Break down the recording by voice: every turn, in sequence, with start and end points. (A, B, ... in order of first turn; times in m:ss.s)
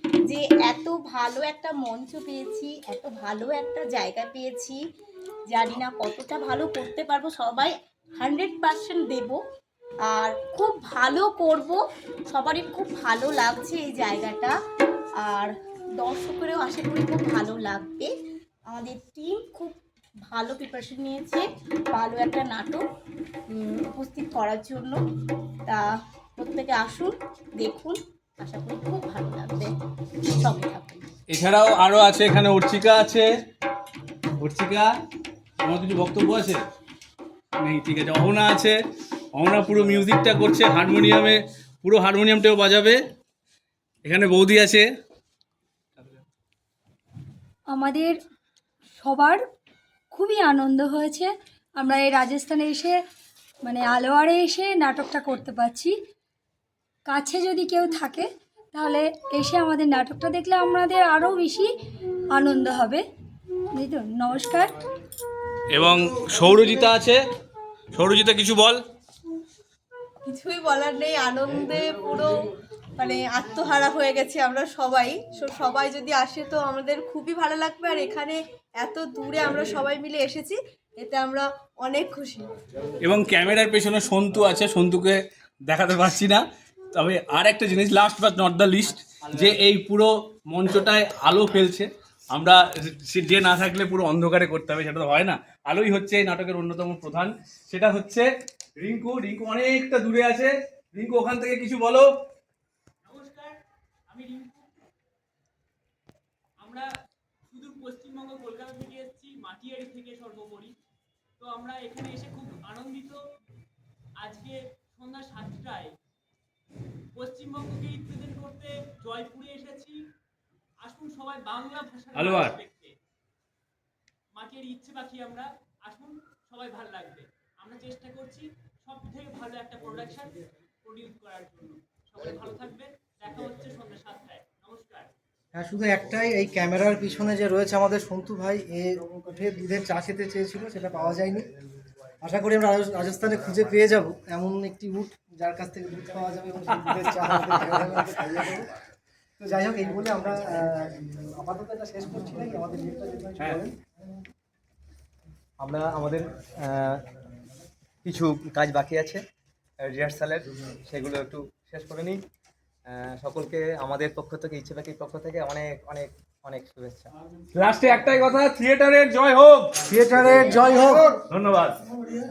0:00.3-0:04.8 A
0:05.5-0:09.4 A
0:10.1-0:11.8 A
0:12.3-0:14.5 A
0:15.3-0:18.1 A
0:18.7-0:19.8 A
0:20.3-0:22.8 A
0:23.5-0:25.0 A
0:26.4-0:29.7 A
0:30.4-0:31.1 A
0:31.3-0:33.3 B
0:34.4-0:34.9 B
0:35.6-0:36.6 B
0:37.6-0:38.8 B
0:39.3-0:43.0 B
0:44.0-0:44.9 B
0:47.7-0:48.2 C
0:49.0-0:49.4 C
0:50.1-0:53.0 C
0:53.6-0:56.0 C
0:57.1-1:01.7 C
1:02.4-1:03.0 C
1:03.7-1:04.8 C
1:05.7-1:07.2 B
1:07.9-1:08.8 B
1:10.2-1:22.5 D
1:23.0-1:42.1 B
1:43.1-1:43.6 E
1:44.1-1:44.7 E
1:46.6-1:46.9 E
1:47.5-1:50.7 E
1:51.4-1:53.2 E
1:54.2-1:55.9 E
1:57.2-2:00.0 E
2:00.8-2:02.9 E
2:02.2-2:02.6 B
2:04.4-2:10.3 E
2:10.8-2:15.1 E
2:15.5-2:21.5 F
2:22.2-2:28.8 F
2:29.4-2:34.2 F
2:35.6-2:37.0 G
2:38.0-2:39.2 G
2:39.8-2:42.2 G
2:42.9-2:47.1 G
2:47.6-2:50.0 B
2:49.9-2:51.2 F
2:51.3-2:51.8 B